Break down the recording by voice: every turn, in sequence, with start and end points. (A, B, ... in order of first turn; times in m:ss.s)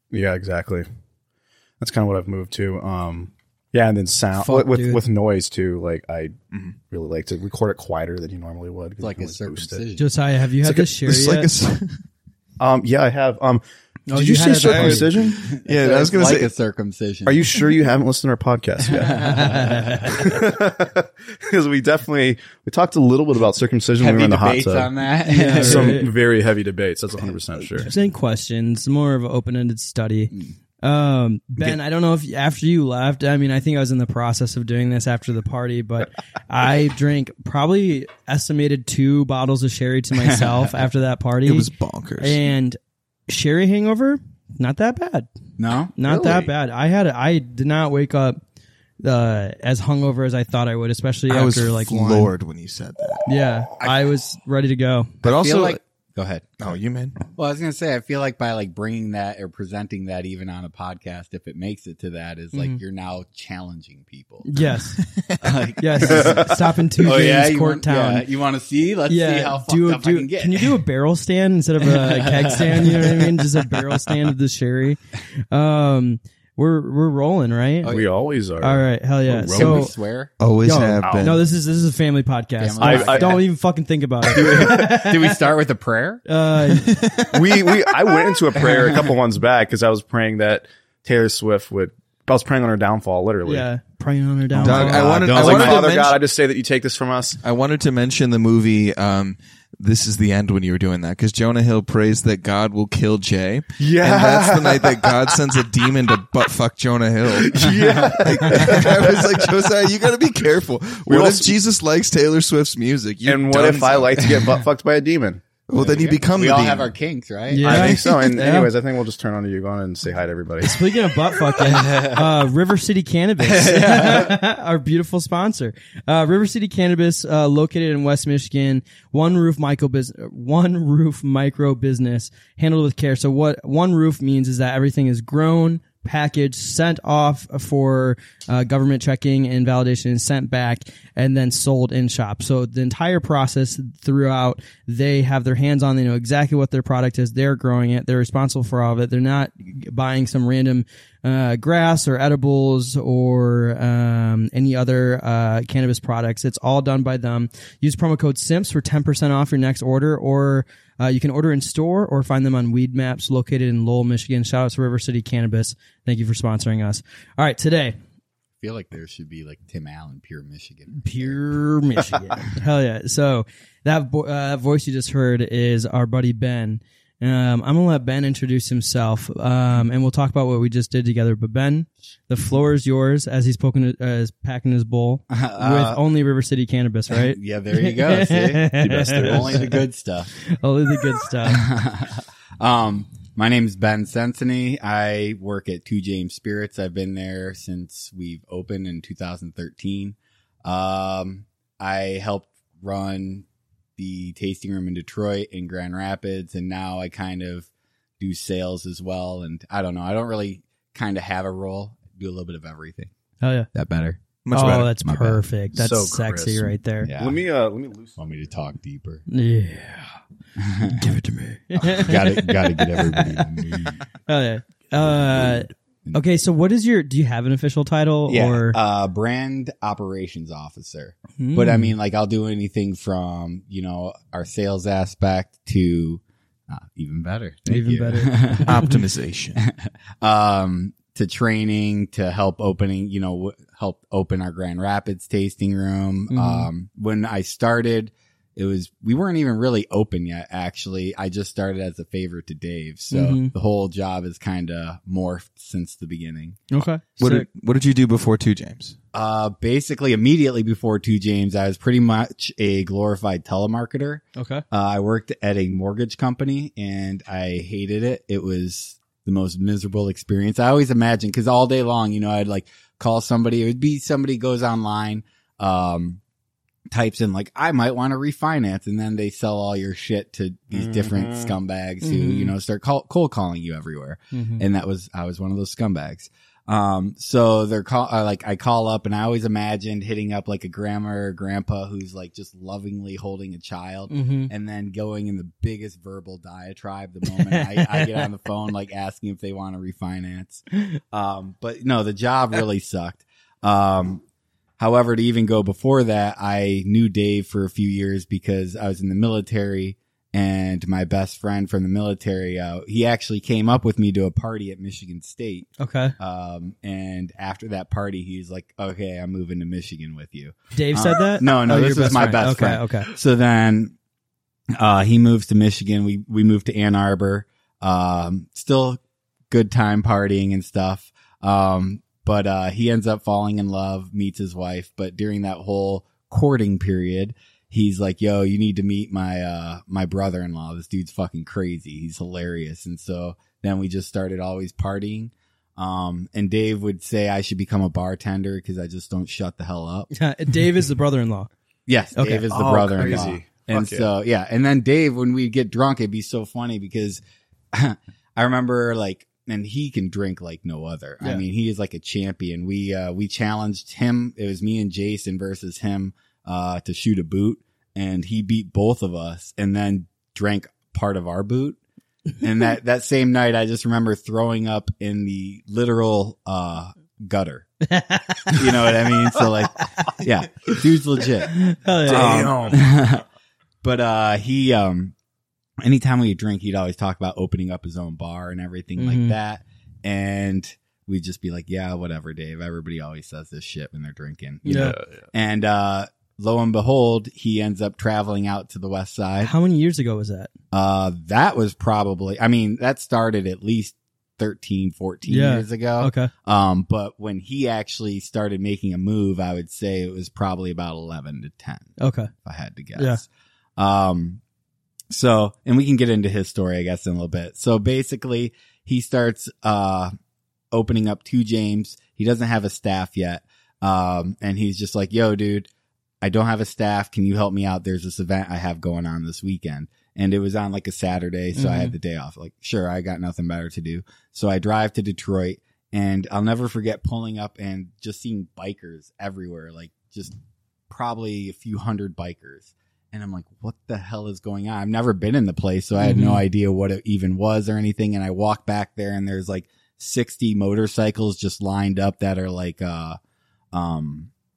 0:00.1-0:00.9 A
0:01.8-0:06.3 A
0:04.4-0:05.0 B
0:06.9-0:09.8 A
0:09.0-0:10.0 C
0:10.0-0:11.5 B
0:10.6-0:10.9 A
0:11.0-0:12.0 D
0:12.6-0:15.4 A
0:14.1-0:15.2 B
0:14.6-0:15.1 D
0:15.4-0:17.6 C
0:15.6-0:16.5 D
0:17.2-0:27.9 A
0:18.9-0:20.1 C
0:19.2-0:20.3 B
0:24.0-0:26.1 C
0:25.3-0:26.1 B
0:27.8-0:45.3 B
0:40.2-0:40.6 C
0:41.4-0:42.4 D
0:45.6-0:45.9 C
0:46.0-0:48.4 B
0:46.0-0:46.5 A
0:49.0-0:52.3 B
0:51.3-0:53.3 D
0:53.3-0:55.2 B
0:53.8-0:54.0 C
0:55.2-0:55.8 D
0:55.2-0:56.7 C
0:56.6-0:57.2 D
0:57.4-1:04.4 C
1:04.4-1:05.0 B
1:05.0-1:05.6 D
1:05.4-1:10.8 C
1:05.8-1:08.2 B
1:06.0-1:06.7 A
1:09.1-1:18.0 B
1:11.8-1:13.3 C
1:17.8-1:19.9 A
1:18.6-1:19.9 B
1:19.5-1:20.3 C
1:20.4-1:21.4 D
1:20.6-1:25.4 B
1:21.0-1:21.3 A
1:22.6-1:23.4 C
1:22.8-1:23.4 A
1:24.3-1:24.9 A
1:24.3-1:26.2 C
1:26.3-1:27.0 B
1:26.7-1:27.4 D
1:27.3-1:33.7 A
1:33.4-1:35.0 B
1:34.5-1:37.4 A
1:34.6-1:36.2 D
1:34.6-1:35.9 C
1:37.4-1:54.5 D
1:43.8-1:45.4 A
1:47.4-1:49.5 A
1:51.1-1:51.5 A
1:53.2-1:56.1 A
1:55.7-1:56.9 D
1:55.8-1:57.8 C
1:57.5-1:58.7 B
1:57.6-2:01.7 A
2:00.6-2:48.0 B
2:01.6-2:02.3 C
2:03.5-2:04.3 C
2:03.6-2:04.2 A
2:48.6-2:51.4 C
2:50.9-3:09.8 B
3:05.3-3:06.0 C
3:07.1-3:10.3 C
3:10.4-3:11.7 B
3:11.4-3:23.4 C
3:24.0-3:27.7 C
3:28.2-3:33.1 C
3:33.4-3:33.7 B
3:33.7-3:34.2 C
3:34.4-3:34.9 D
3:34.5-3:37.1 B
3:34.8-3:35.4 C
3:35.7-3:38.2 A
3:37.0-3:37.4 C
3:38.2-3:39.2 C
3:39.3-3:40.2 B
3:40.6-3:41.1 C
3:40.8-3:43.5 B
3:41.8-3:44.0 C
3:44.3-3:48.8 B
3:48.3-3:58.8 C
3:51.4-3:51.9 B
3:57.7-3:59.0 B
3:58.6-3:59.6 D
3:59.6-4:16.6 C
4:06.3-4:06.7 B
4:13.1-4:13.5 B
4:16.7-4:17.4 B
4:17.2-4:19.0 D
4:19.1-4:36.2 C
4:24.4-4:24.6 B
4:36.9-5:04.2 C
4:40.8-4:41.5 A
4:42.0-4:42.5 B
4:44.3-4:44.6 B
4:54.1-4:54.5 B
4:57.5-4:58.2 B
5:04.8-5:23.9 C
5:15.8-5:16.1 B
5:20.7-5:23.1 B
5:24.7-5:50.1 C
5:50.1-5:51.5 B
5:51.9-5:57.2 C
5:52.2-5:53.3 B
5:52.5-5:54.1 A
5:57.7-6:11.8 C
6:12.4-6:17.6 C
6:17.9-6:19.4 B
6:18.5-6:23.2 C
6:21.4-6:22.5 B
6:22.0-6:22.8 A
6:23.8-6:25.1 C
6:25.8-6:39.5 C
6:29.0-6:29.3 B
6:34.6-6:35.3 A
6:34.6-6:35.0 B
6:39.4-6:40.5 B
6:40.7-6:53.2 C
6:45.3-6:46.3 B
6:52.0-6:52.3 B
6:53.8-6:54.4 C
6:55.1-7:00.1 C
7:00.7-7:05.7 C
7:06.2-7:20.4 C
7:11.5-7:11.9 B
7:20.9-7:33.2 C
7:26.0-7:26.4 B
7:33.7-7:34.3 C